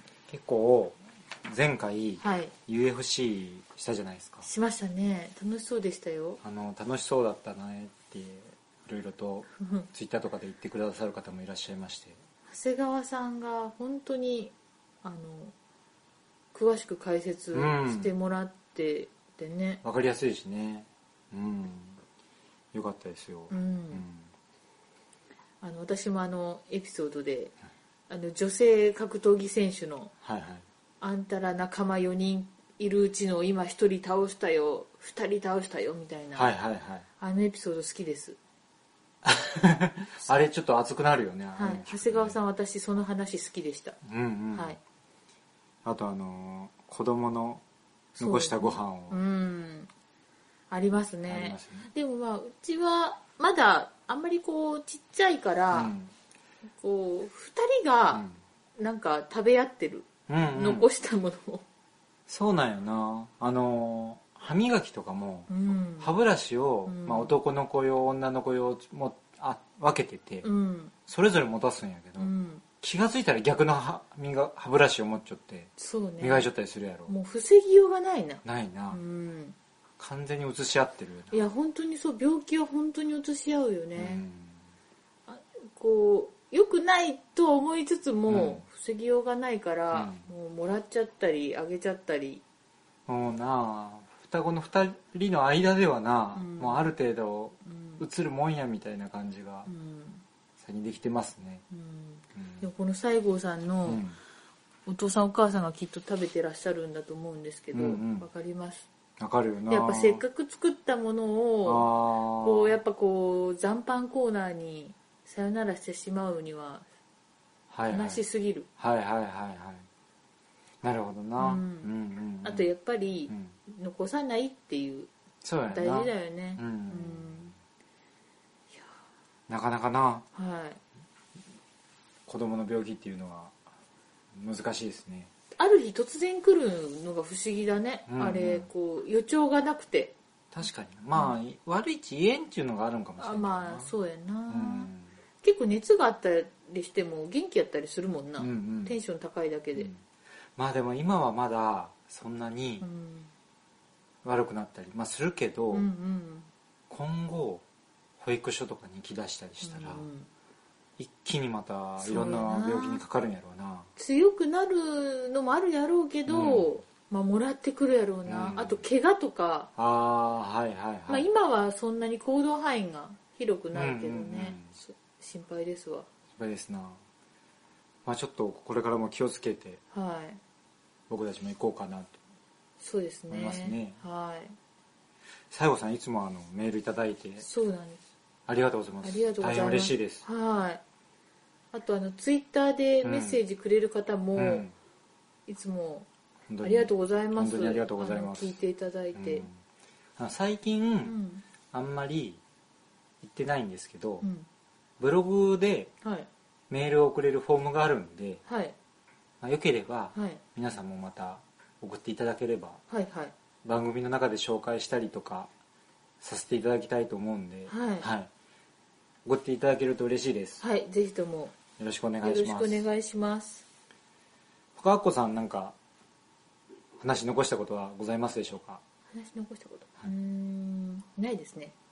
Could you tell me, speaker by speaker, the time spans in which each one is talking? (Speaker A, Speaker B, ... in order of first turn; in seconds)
Speaker A: 0.3-4.5, 6.4-12.2, 17.5-18.1, 19.8-22.0, 22.7-24.3, 30.2-30.6, 36.3-37.0, 39.2-42.4, 44.0-44.8, 45.8-47.6, 48.2-49.2, 51.2-51.9, 55.7-56.1, 60.3-60.9, 62.3-70.5, 71.1-77.1, 78.4-79.0, 80.0-81.4, 84.0-84.6, 88.3-88.6, 89.9-90.2, 93.1-99.7, 100.6-101.6, 102.3-102.6, 103.8-104.2, 107.7-108.3, 109.2-110.2, 111.6-112.7, 117.7-118.2, 118.8-119.8, 120.8-122.7, 125.4-127.5, 129.5-130.3, 132.3-133.6, 134.3-135.3, 138.1-138.7, 140.5-143.9, 144.5-145.1, 148.4-148.9, 150.6-152.9, 154.2-155.9, 156.9-157.6, 158.2-160.1, 161.0-163.9, 166.3-166.7, 168.2-168.8, 169.8-171.3, 173.7-174.7, 176.3-177.0, 178.0-179.8, 181.1-182.2, 183.3-184.0, 185.5-187.4, 188.5-190.2, 193.0-193.4, 194.4-194.7, 196.5-198.6, 199.1-199.6, 200.2-201.2, 201.7-202.4, 203.2-204.2, 205.0-205.9, 206.7-208.4, 209.4-212.8, 213.6-215.5, 216.2-218.3, 219.2-220.6, 221.8-222.8, 224.8-225.7, 227.0-228.8
Speaker B: 2.2-2.5, 4.4-6.4, 9.6-9.9, 12.5-15.5, 16.5-19.8, 23.5-24.0, 25.6-27.5, 28.1-30.1, 31.0-36.5, 37.2-38.4, 41.5-44.0, 48.2-49.9, 50.7-55.9, 56.8-58.2, 58.8-61.6, 65.5-66.1, 66.8-67.3, 70.4-70.9, 72.2-72.6, 75.8-76.5, 77.1-79.5, 81.3-84.2, 85.3-92.4, 96.3-96.9, 97.7-98.0, 99.7-100.2, 101.7-104.0, 104.8-108.9, 109.7-116.8, 117.9-118.7, 121.4-121.9, 122.4-125.1, 125.7-127.5, 130.3-130.8, 135.6-140.1, 143.2-144.9, 145.4-149.9, 152.8-153.3, 155.7-156.5, 159.6-160.3, 162.0-163.0, 164.0-169.7, 171.1-176.1, 179.9-180.4, 182.8-184.6, 187.4-188.0, 189.0-190.8, 191.7-194.6, 195.5-196.1, 196.6-199.5, 201.0-201.4, 204.2-204.5, 206.0-206.3, 208.4-208.7, 210.1-210.4, 212.9-213.3, 217.7-218.1, 220.6-221.5, 222.2-223.6, 229.1-231.7